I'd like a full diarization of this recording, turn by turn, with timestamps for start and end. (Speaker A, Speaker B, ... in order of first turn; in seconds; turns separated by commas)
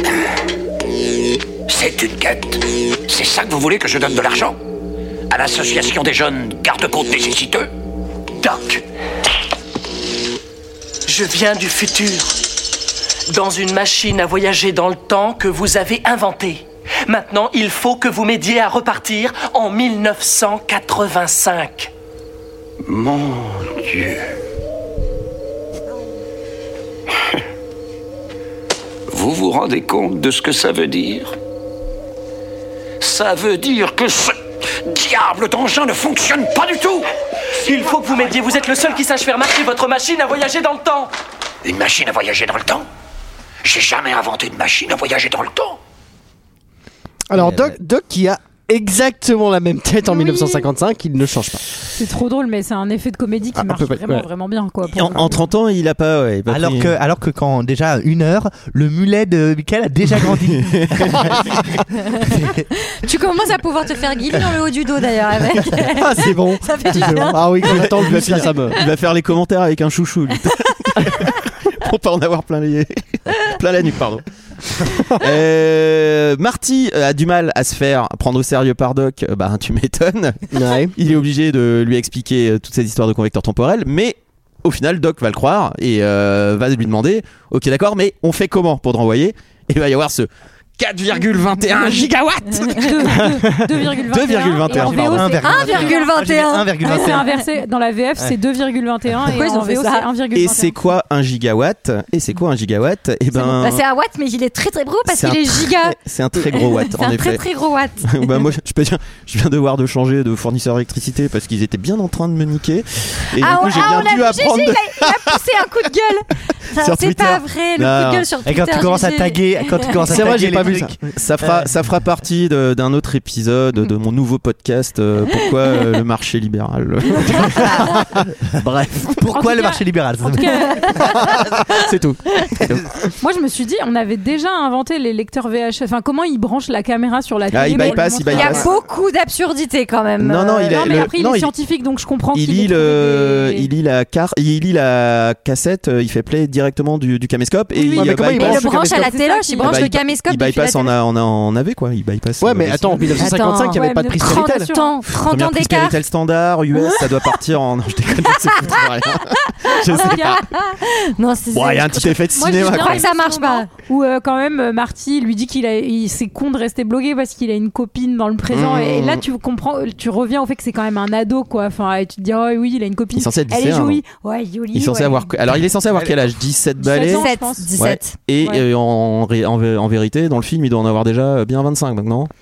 Speaker A: 1.7-4.6, Speaker A: 5.3-7.7, Speaker B: 8.4-8.8, Speaker B: 11.1-12.4, Speaker B: 13.3-21.9, Speaker A: 22.9-24.3, Speaker A: 29.1-31.4, Speaker A: 33.0-37.1, Speaker B: 37.6-41.1, Speaker A: 41.6-42.9, Speaker A: 43.6-45.8, Speaker C: 47.3-51.7, Speaker D: 47.4-47.8, Speaker E: 50.0-50.7, Speaker E: 52.0-55.4, Speaker C: 53.6-54.3, Speaker F: 54.9-57.0, Speaker D: 56.5-61.4, Speaker F: 60.6-61.2, Speaker D: 62.2-62.6, Speaker G: 62.9-68.5, Speaker C: 65.8-68.8, Speaker F: 67.7-74.2, Speaker F: 74.8-93.2, Speaker C: 80.5-81.0, Speaker E: 92.7-96.1, Speaker C: 93.3-93.6, Speaker F: 94.1-95.4, Speaker D: 94.7-97.3, Speaker G: 95.4-97.4, Speaker E: 96.8-100.8, Speaker G: 99.3-100.1, Speaker F: 100.3-103.8, Speaker G: 103.3-108.5, Speaker F: 105.1-107.4, Speaker F: 108.0-115.4, Speaker G: 113.4-120.1, Speaker F: 116.8-118.3, Speaker D: 118.5-121.7, Speaker C: 120.1-121.0, Speaker F: 121.2-129.2, Speaker D: 129.2-131.4, Speaker E: 129.3-131.1, Speaker F: 131.7-132.9, Speaker E: 133.2-138.7, Speaker F: 137.5-138.7, Speaker G: 137.8-141.1, Speaker C: 138.3-138.6, Speaker F: 140.2-141.5, Speaker E: 140.7-143.7, Speaker F: 142.3-148.6, Speaker E: 147.8-149.9, Speaker C: 148.0-149.2, Speaker G: 148.3-150.9, Speaker F: 149.6-153.1, Speaker C: 152.4-154.7, Speaker G: 153.2-156.0, Speaker E: 153.7-155.0, Speaker F: 155.1-160.4, Speaker G: 158.5-158.8, Speaker G: 159.3-163.7, Speaker E: 159.8-160.4, Speaker F: 161.5-163.1, Speaker E: 162.4-175.3, Speaker F: 168.5-169.2, Speaker F: 173.1-174.0, Speaker F: 174.7-182.3, Speaker D: 175.9-176.2, Speaker E: 176.8-177.7, Speaker G: 177.0-178.2